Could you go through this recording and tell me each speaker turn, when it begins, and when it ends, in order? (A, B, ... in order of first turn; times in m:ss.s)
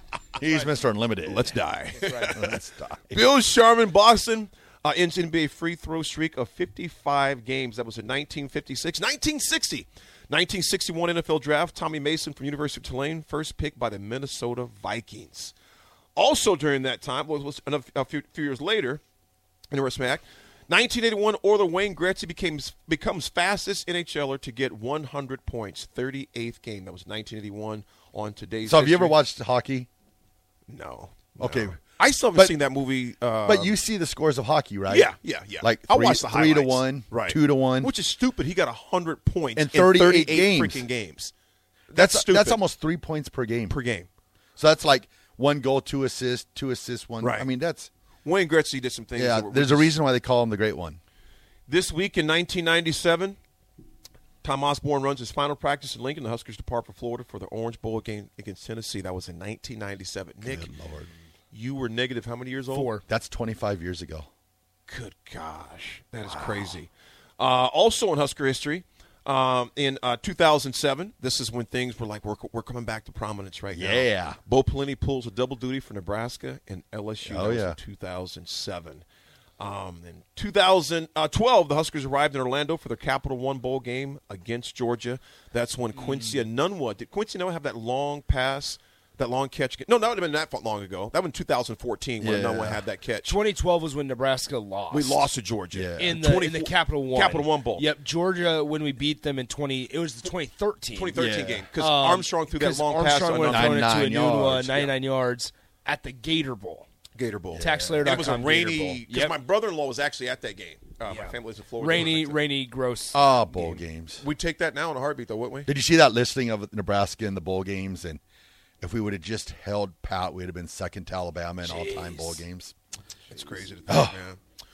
0:00.4-0:01.5 A
0:01.2-0:02.6 B
0:01.9-0:02.4 C
0:02.3-0:03.2 A
0:03.1-0:15.5 B
0:16.2-0:19.0 B
0:19.7-0:29.2 B
0:28.6-0:29.9 A
0:30.7-0:33.8 B
0:31.4-0:31.8 A
0:33.4-0:37.9 A
0:34.9-0:41.3 B
0:39.6-0:40.8 A
0:41.9-0:42.6 B
0:41.9-0:43.8 A
0:43.7-0:44.1 B
0:44.6-0:47.9 A
0:47.2-0:47.5 B
0:48.2-0:50.0 B
0:49.2-0:51.0 A
0:51.7-0:53.4 B
0:54.4-1:00.7 B
1:00.4-1:01.1 A
1:01.5-1:02.9 B
1:02.7-1:03.0 C
1:03.0-1:04.3 A
1:04.9-1:19.0 B
1:06.2-1:06.8 A
1:13.7-1:14.4 A
1:17.2-1:17.8 A
1:19.6-1:33.4 B
1:25.9-1:26.4 C
1:32.2-1:32.8 A
1:33.2-1:35.3 C
1:34.9-1:37.9 B
1:35.7-1:36.2 A
1:36.0-1:41.2 C
1:40.9-1:43.8 B
1:41.1-1:41.7 A
1:41.7-1:46.9 C
1:43.4-1:44.7 A
1:47.1-1:52.4 B
1:47.5-1:48.1 A
1:47.5-1:49.4 C
1:51.0-1:53.8 C
1:53.1-1:54.2 A
1:54.2-1:55.7 B
1:55.6-1:58.2 A
1:58.8-2:02.7 A
2:01.6-2:02.4 C
2:03.3-2:04.4 B
2:03.3-2:03.7 C
2:03.9-2:04.2 A